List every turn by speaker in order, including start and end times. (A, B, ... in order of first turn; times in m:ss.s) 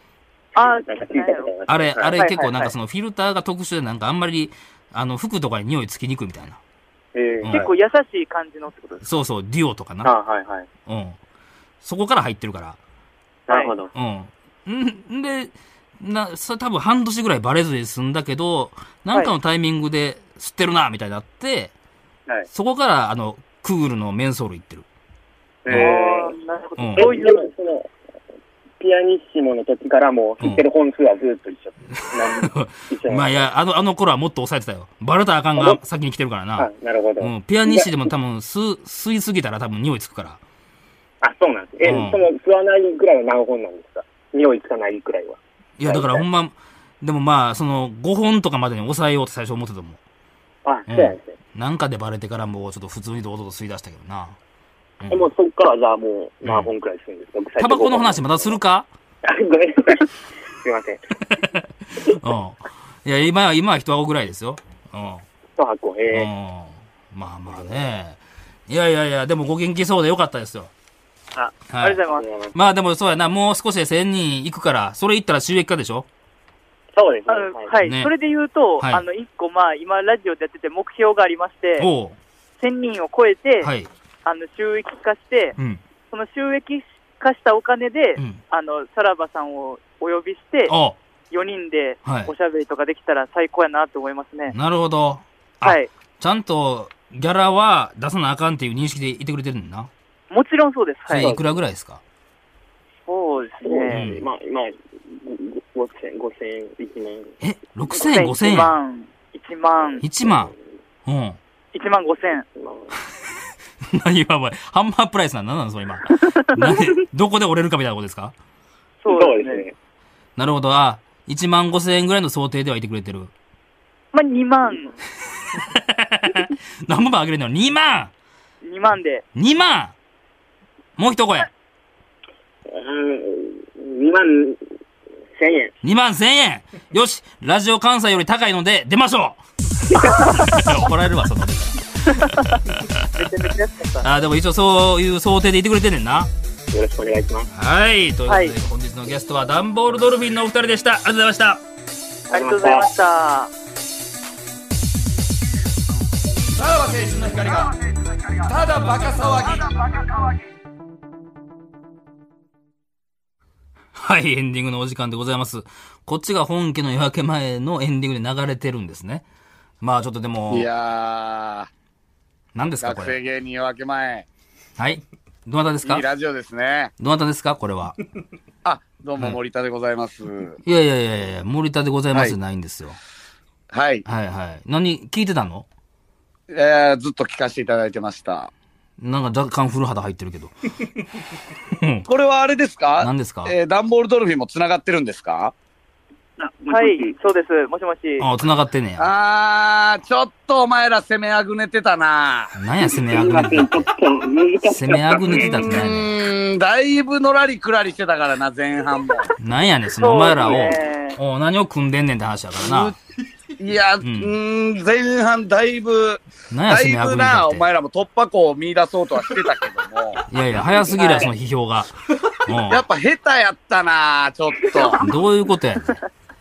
0:00.5-0:01.5 A
0:00.5-0:02.7 B
0:01.7-0:06.6 C
0:02.2-0:02.5 A
0:07.1-0:07.6 B
0:07.4-0:07.7 C
0:07.5-0:09.2 A
0:09.0-0:10.1 C
0:10.0-0:10.7 B
0:10.9-0:11.2 C
0:11.8-0:12.8 C
0:13.5-0:13.9 B
0:13.5-0:13.7 A
0:13.9-0:21.7 C
0:22.5-0:24.8 C
0:25.6-0:26.3 B
0:25.7-0:25.9 C
0:25.7-0:27.5 A
0:26.8-0:27.1 C
0:27.0-0:27.9 B
0:28.8-0:33.4 B
0:32.2-0:40.4 C
0:36.6-0:37.9 B
0:41.2-0:46.2 B
0:41.8-0:42.2 C
0:45.8-0:50.0 C
0:50.6-0:51.3 B
0:50.9-0:54.4 C
0:55.0-0:55.3 C
0:55.1-0:58.6 B
0:56.4-0:56.7 C
0:57.6-0:58.9 C
0:59.2-1:01.0 B
1:01.4-1:05.2 C
1:05.6-1:06.3 B
1:06.1-1:08.2 C
1:07.5-1:07.8 B
1:08.7-1:10.7 C
1:11.3-1:12.5 B
1:11.7-1:12.0 C
1:11.8-1:12.2 A
1:12.5-1:16.0 C
1:16.9-1:17.7 B
1:17.3-1:21.9 A
1:17.8-1:18.1 C
1:21.8-1:22.2 C
1:22.6-1:23.7 A
1:23.6-1:23.9 C
1:24.2-1:25.5 A
1:26.1-1:30.7 A
1:30.7-1:31.0 C
1:31.3-1:34.5 A
1:32.0-1:32.3 C
1:34.5-1:39.9 C
1:35.6-1:35.9 A
1:40.3-1:41.3 A
1:41.1-1:42.0 C
1:41.2-1:41.5 B
1:43.1-1:44.0 A
1:43.6-1:47.3 B
1:43.9-1:44.2 C
1:47.4-1:48.7 C
1:47.9-1:50.0 A
1:50.0-1:50.5 C
1:51.0-1:51.4 C
1:51.7-1:52.5 A
1:52.6-1:52.9 B
1:53.8-1:58.3 C
1:56.2-1:56.6 A
1:59.0-1:59.6 A
1:59.1-1:59.7 B
2:00.4-2:03.3 C
2:04.1-2:04.9 A
2:05.5-2:08.1 C
2:08.6-2:09.2 A
2:09.3-2:09.9 C
2:11.0-2:11.5 C
2:12.6-2:14.6 B
2:15.4-2:15.7 B
2:15.8-2:23.0 C
2:19.9-2:20.6 B
2:22.1-2:22.5 A
2:23.1-2:24.1 A
2:24.0-2:26.3 C
2:26.7-2:27.5 B
2:27.5-2:31.6 C
2:28.3-2:28.5 A
2:32.3-2:32.9 B
2:32.3-2:33.5 A
2:36.5-2:37.8 D
2:38.3-2:40.4 D
2:44.0-2:49.2 C
2:49.8-2:50.7 C
2:50.5-2:51.7 D
2:52.5-2:53.2 C
2:52.8-2:54.3 D
2:54.8-2:56.0 C
2:55.8-2:56.9 D
2:57.0-2:58.0 C
2:58.6-3:00.6 D
3:00.6-3:03.0 C
3:03.7-3:04.0 D
3:04.0-3:05.6 C
3:06.5-3:08.5 D
3:09.0-3:10.5 C
3:11.8-3:12.1 C
3:12.1-3:15.5 D
3:13.0-3:13.5 C
3:16.4-3:17.1 B
3:16.7-3:18.2 A
3:18.2-3:19.1 C
3:19.0-3:22.5 D
3:22.6-3:23.9 C
3:23.0-3:25.7 B
3:24.7-3:26.2 C
3:25.4-3:29.3 D
3:29.4-3:33.0 C
3:30.0-3:31.2 A
3:32.6-3:33.0 D
3:33.6-3:40.2 D
3:34.0-3:34.3 C
3:36.5-3:37.7 C
3:40.3-3:42.8 C
3:40.9-3:41.3 A
3:42.7-3:45.0 D
3:45.0-3:46.0 C